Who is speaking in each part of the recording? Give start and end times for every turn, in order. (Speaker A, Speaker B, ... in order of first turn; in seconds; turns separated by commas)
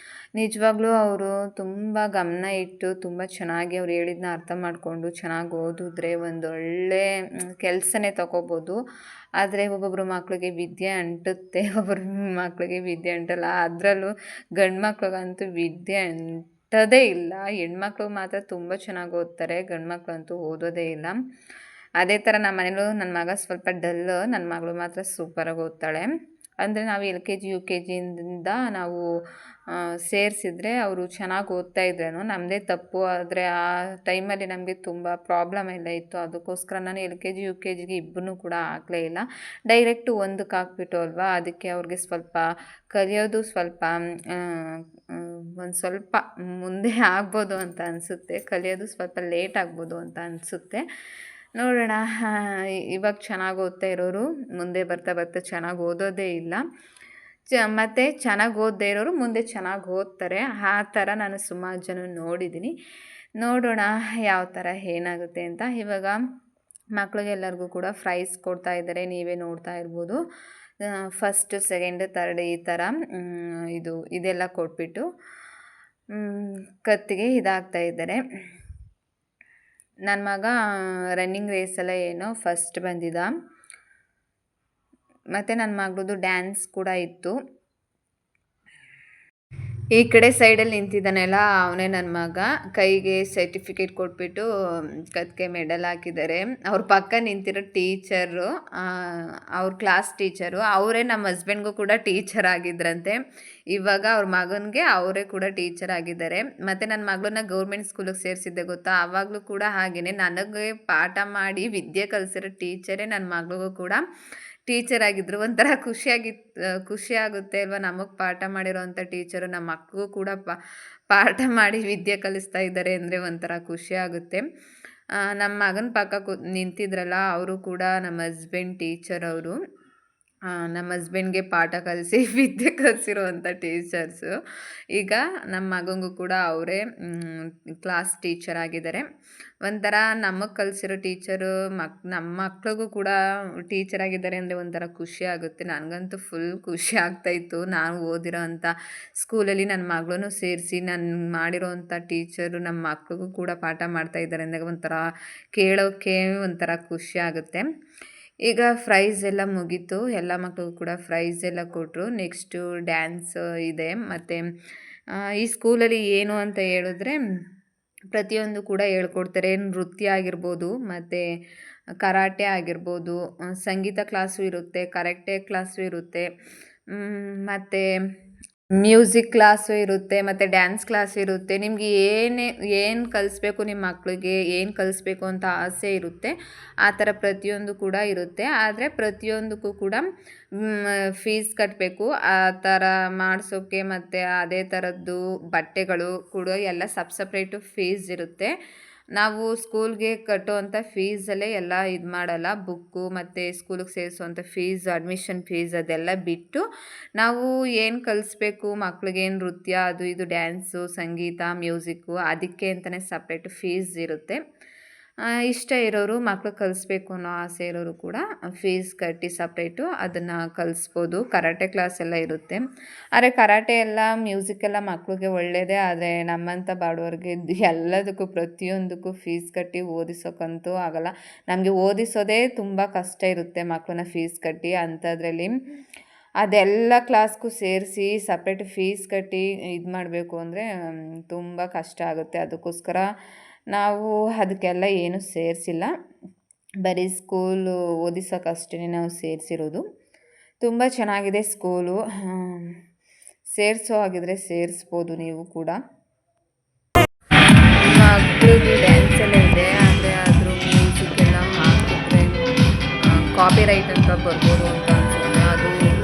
Speaker A: 0.4-7.1, Speaker A: 7.6-8.8, Speaker A: 9.4-21.2, Speaker A: 22.0-26.1, Speaker A: 26.6-29.0, Speaker A: 29.7-33.5, Speaker A: 34.1-50.9, Speaker A: 51.6-56.6, Speaker A: 57.5-62.7, Speaker A: 63.4-66.2, Speaker A: 67.0-70.2, Speaker A: 71.1-75.0, Speaker A: 76.1-78.2, Speaker A: 80.1-80.6, Speaker A: 81.2-83.3, Speaker A: 85.3-87.3, Speaker A: 89.9-94.5, Speaker A: 95.1-103.2, Speaker A: 103.7-114.0, Speaker A: 114.7-120.6, Speaker A: 121.1-124.4, Speaker A: 125.2-129.6, Speaker A: 130.5-134.3, Speaker A: 134.9-139.1, Speaker A: 139.6-155.0, Speaker A: 155.5-157.7, Speaker A: 158.5-164.4, Speaker A: 165.3-167.2, Speaker A: 168.1-171.2, Speaker A: 172.0-176.3, Speaker A: 176.9-177.9, Speaker A: 178.8-190.0, Speaker A: 190.6-198.5, Speaker A: 199.2-206.6, Speaker A: 207.2-214.4, Speaker A: 215.5-222.6, Speaker A: 223.2-235.5, Speaker A: 236.4-240.7, Speaker A: 241.3-243.1, Speaker A: 243.7-245.9, Speaker A: 246.8-249.8, Speaker A: 250.6-252.7, Speaker A: 253.5-255.8, Speaker A: 257.9-262.4, Speaker A: 263.4-265.8